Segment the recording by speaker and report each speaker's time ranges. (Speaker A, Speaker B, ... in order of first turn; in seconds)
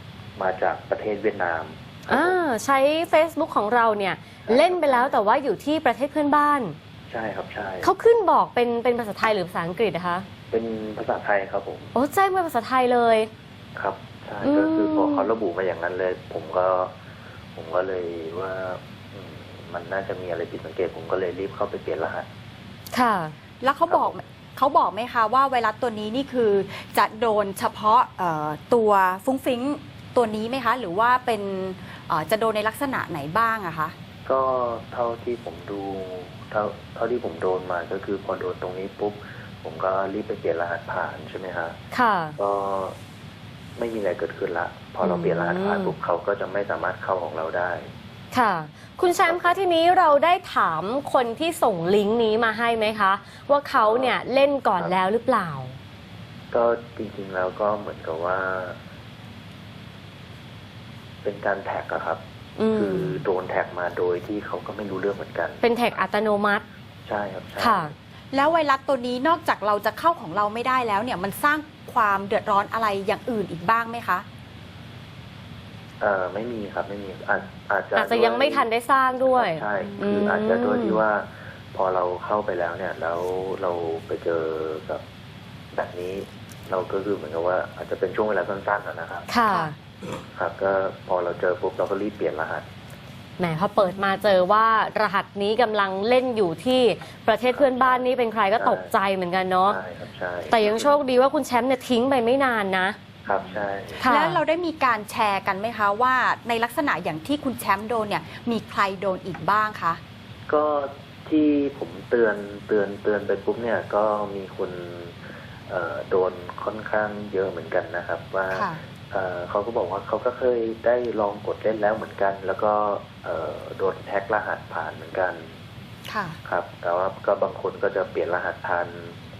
Speaker A: 0.3-2.4, 4.5-5.2, 7.1-7.9, 10.5-11.9, 13.8-16.9, 17.5-22.3, 23.9-24.2, 34.2-41.8, 42.4-43.0, 43.8-47.9, 49.2-49.5, 53.8-54.2, 56.5-58.8, 61.2-62.2, 62.7-65.6, 67.0-67.9, 76.0-78.7, 79.2-85.0, 85.7-89.3, 90.3-92.7, 97.5-98.0, 98.6-98.9, 99.7-101.0, 103.2-104.0, 110.5-125.5, 126.4-129.2
Speaker B: 2.1-6.8, 7.8-10.3, 11.9-13.3, 14.4-15.3, 22.9-23.3, 41.9-42.4, 45.0-45.9, 48.3-55.8, 62.6-63.2, 65.6-66.6, 67.6-67.9, 77.9-81.0, 89.3-89.7, 93.4-99.8, 100.5-103.0, 104.0-104.4
Speaker C: 23.6-33.9, 68.3-74.2, 89.5-89.7, 93.8-94.1, 104.0-110.0, 118.5-118.8, 126.1-126.4